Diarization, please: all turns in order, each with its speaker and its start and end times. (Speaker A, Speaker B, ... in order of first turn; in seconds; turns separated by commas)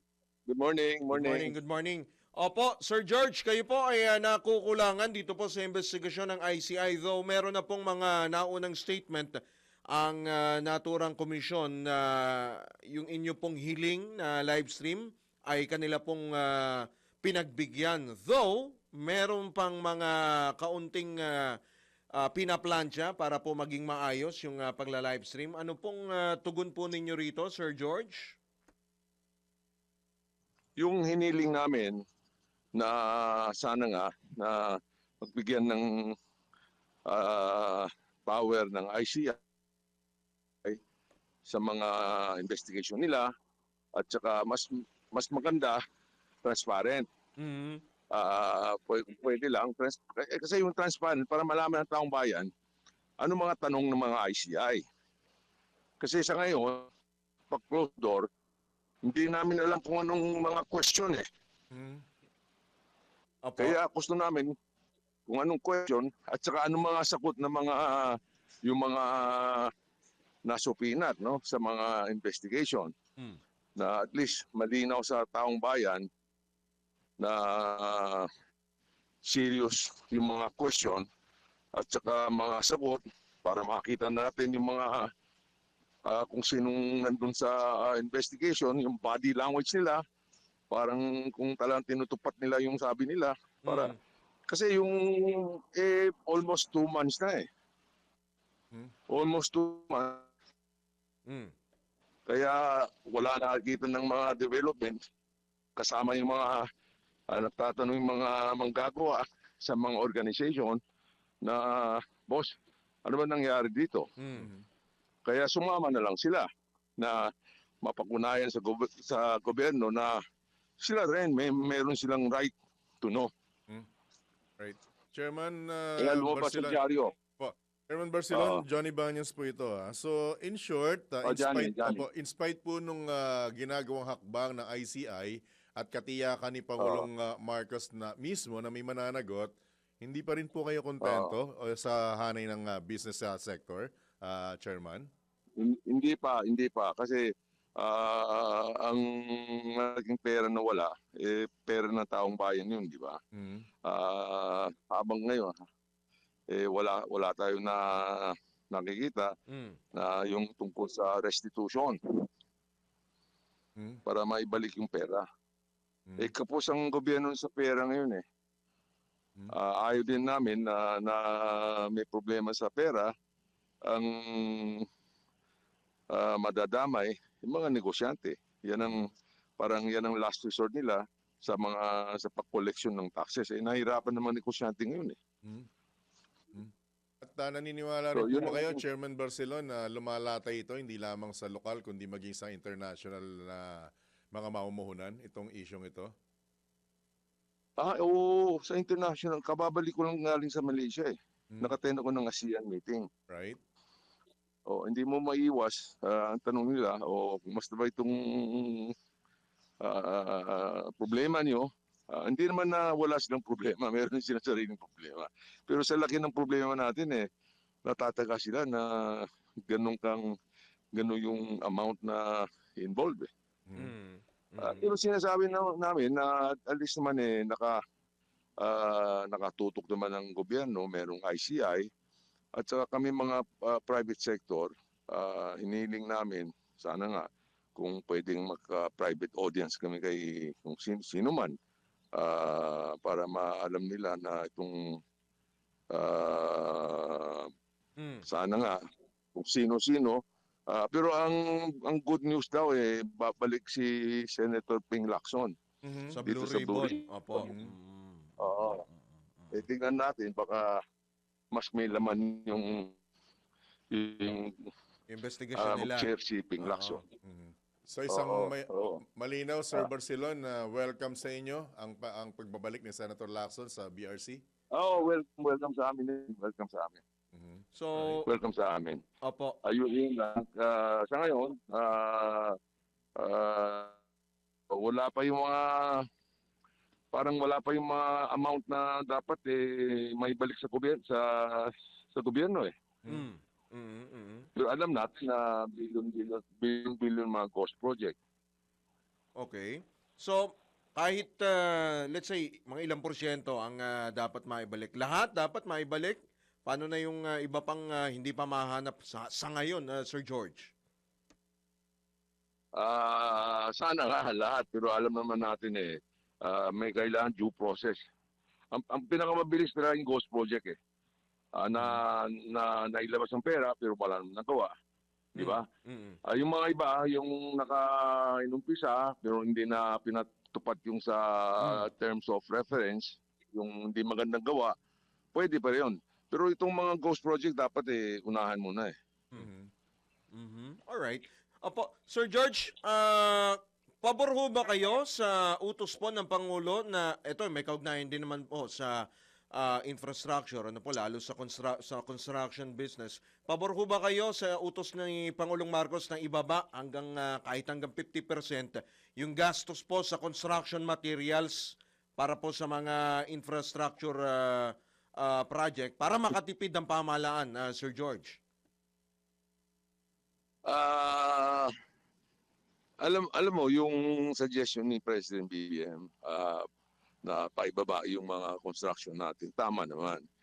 Speaker A: 0.5-1.5, Speaker B: 1.1-9.4, Speaker B: 9.9-21.5, Speaker B: 22.2-28.4, Speaker A: 30.8-32.0, Speaker A: 32.8-36.1, Speaker A: 37.1-39.4, Speaker A: 41.5-43.3, Speaker A: 44.0-45.8, Speaker A: 46.4-47.1, Speaker B: 47.4-47.8, Speaker A: 48.1-52.5, Speaker A: 53.2-54.8, Speaker A: 56.0-56.9, Speaker A: 57.5-58.3, Speaker A: 59.0-61.2, Speaker C: 61.7-62.0, Speaker B: 63.5-63.8, Speaker A: 63.6-64.5, Speaker A: 65.3-69.7, Speaker A: 70.5-72.9, Speaker A: 73.8-76.1, Speaker A: 77.2-78.3, Speaker A: 79.2-81.1, Speaker A: 81.8-85.1, Speaker A: 86.0-90.0, Speaker A: 90.7-94.0, Speaker B: 93.7-94.0, Speaker A: 94.5-97.5, Speaker A: 99.1-100.3, Speaker B: 101.3-101.5, Speaker A: 102.3-105.0, Speaker A: 105.8-106.7, Speaker A: 107.3-110.8, Speaker A: 111.4-114.1, Speaker B: 114.2-114.5, Speaker C: 114.4-114.6, Speaker A: 115.3-116.5, Speaker A: 117.0-117.3, Speaker A: 117.8-120.2, Speaker A: 120.8-123.3, Speaker C: 124.6-126.8, Speaker A: 126.0-127.1, Speaker C: 127.4-145.1, Speaker A: 128.3-128.6, Speaker A: 131.2-132.0, Speaker A: 136.8-137.1, Speaker A: 141.0-141.3, Speaker A: 145.6-153.2, Speaker C: 153.3-153.7, Speaker A: 153.8-155.6, Speaker A: 156.5-159.3, Speaker B: 159.5-159.8, Speaker A: 159.9-162.0, Speaker A: 164.1-165.2, Speaker A: 166.2-168.2, Speaker A: 169.5-173.1, Speaker A: 173.9-174.9, Speaker A: 176.1-185.2, Speaker C: 186.5-196.1, Speaker A: 188.1-188.8, Speaker A: 197.8-203.1, Speaker C: 203.3-203.6, Speaker A: 204.7-208.9, Speaker A: 209.8-217.2, Speaker A: 217.8-220.2, Speaker A: 220.9-223.3, Speaker C: 223.7-223.9, Speaker B: 223.8-224.9, Speaker A: 224.6-227.8, Speaker A: 228.6-231.9, Speaker A: 232.6-241.6, Speaker A: 242.2-245.0, Speaker A: 245.9-247.5, Speaker B: 248.0-248.2, Speaker A: 248.3-248.8, Speaker A: 249.3-255.6, Speaker C: 255.8-256.2, Speaker B: 256.1-259.6, Speaker A: 256.3-257.5, Speaker C: 257.4-257.7, Speaker A: 258.4-258.8, Speaker A: 259.5-260.8, Speaker A: 261.5-263.0, Speaker A: 263.9-264.7, Speaker B: 265.1-266.1, Speaker A: 265.6-267.0, Speaker B: 266.6-267.0, Speaker C: 267.2-274.4, Speaker A: 268.1-269.0, Speaker A: 274.7-277.0, Speaker C: 277.3-278.1, Speaker B: 277.8-278.3, Speaker A: 278.2-279.0, Speaker B: 279.2-279.6, Speaker A: 279.6-282.6, Speaker A: 283.2-284.0, Speaker A: 284.7-286.1, Speaker A: 287.1-292.7, Speaker B: 293.1-294.5, Speaker A: 294.6-298.2, Speaker B: 299.4-310.7, Speaker A: 312.8-318.0, Speaker A: 318.7-320.8, Speaker A: 321.6-324.7, Speaker A: 325.4-325.7, Speaker B: 325.4-326.2, Speaker A: 326.3-334.8, Speaker A: 335.3-338.9, Speaker C: 339.4-339.7, Speaker B: 340.3-349.0, Speaker B: 349.5-368.4, Speaker A: 370.6-371.7, Speaker A: 373.0-376.7, Speaker A: 377.2-380.2